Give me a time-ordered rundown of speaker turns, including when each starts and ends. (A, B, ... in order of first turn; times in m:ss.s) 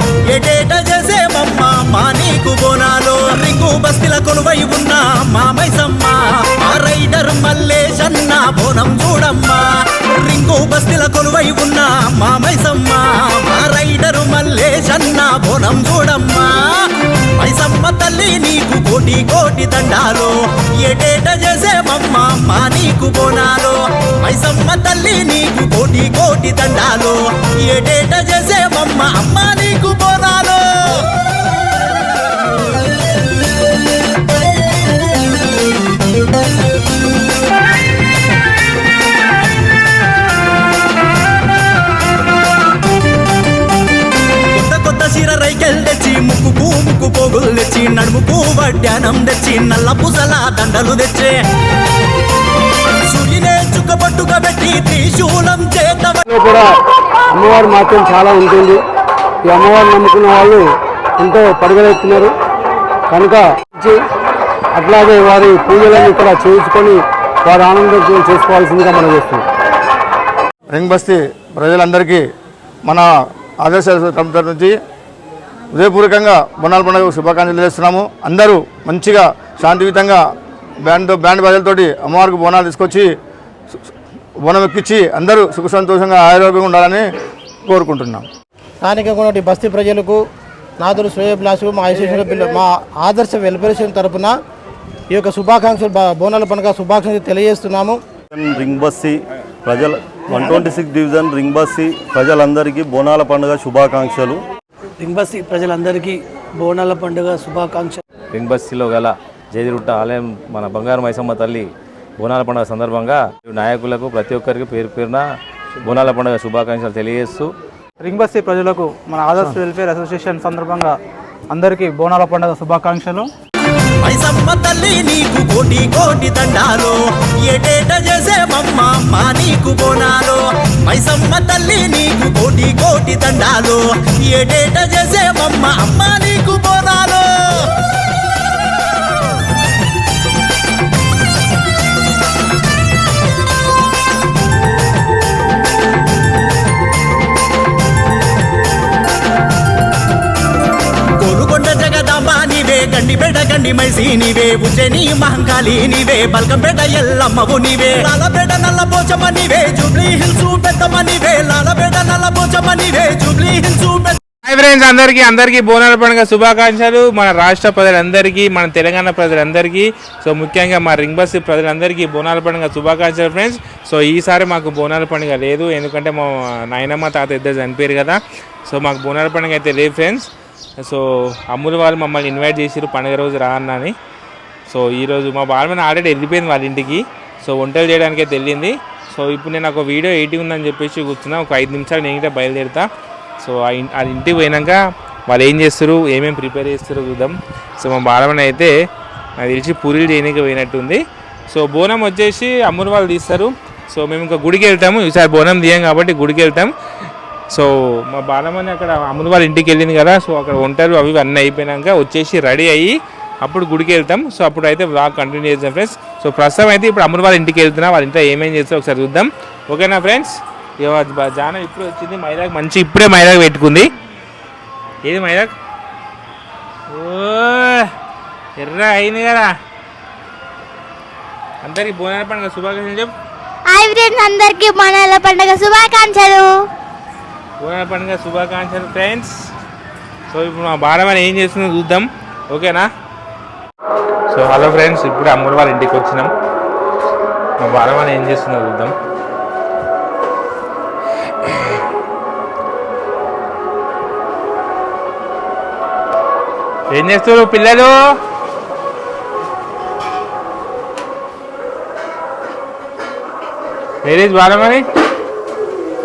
0:00.3-0:16.6 A
0:17.4-0:31.0 A
0:44.5-0:51.3 A
0:53.1-0:56.2 A
0:56.2-0:56.6 B
0:57.3-0:58.8 B
0:59.4-1:00.6 B
1:01.2-1:02.3 B
1:03.1-1:04.0 B
1:04.8-1:09.4 B
1:10.7-1:12.2 C
1:13.6-1:14.7 C
1:15.7-1:20.2 C
1:20.8-1:23.1 C
1:24.4-1:27.0 C
1:27.6-1:28.2 C
1:28.8-1:30.2 D
1:30.8-1:34.4 D
1:35.1-1:38.0 D
1:38.3-1:44.4 E
1:45.0-1:48.0 F
1:48.3-1:51.7 G
1:52.2-1:55.2 G
1:55.8-1:57.5 G
1:58.0-2:00.9 H
2:01.5-2:03.3 H
2:04.0-2:17.6 A
2:31.2-2:44.2 A
2:44.4-3:00.3 I
3:00.8-3:03.9 I
3:04.7-3:12.9 I
3:13.4-3:18.7 I
3:19.4-3:26.7 I
3:27.5-3:32.9 I
3:33.4-3:43.8 I
3:45.0-3:45.5 I
3:46.9-3:47.9 I
3:48.6-3:49.5 I
3:51.6-3:53.1 I
3:53.7-3:56.6 J
3:57.6-3:59.3 I
4:00.3-4:02.9 I
4:04.3-4:06.3 I
4:07.6-4:08.9 I
4:16.9-4:17.9 I
4:24.0-4:24.8 I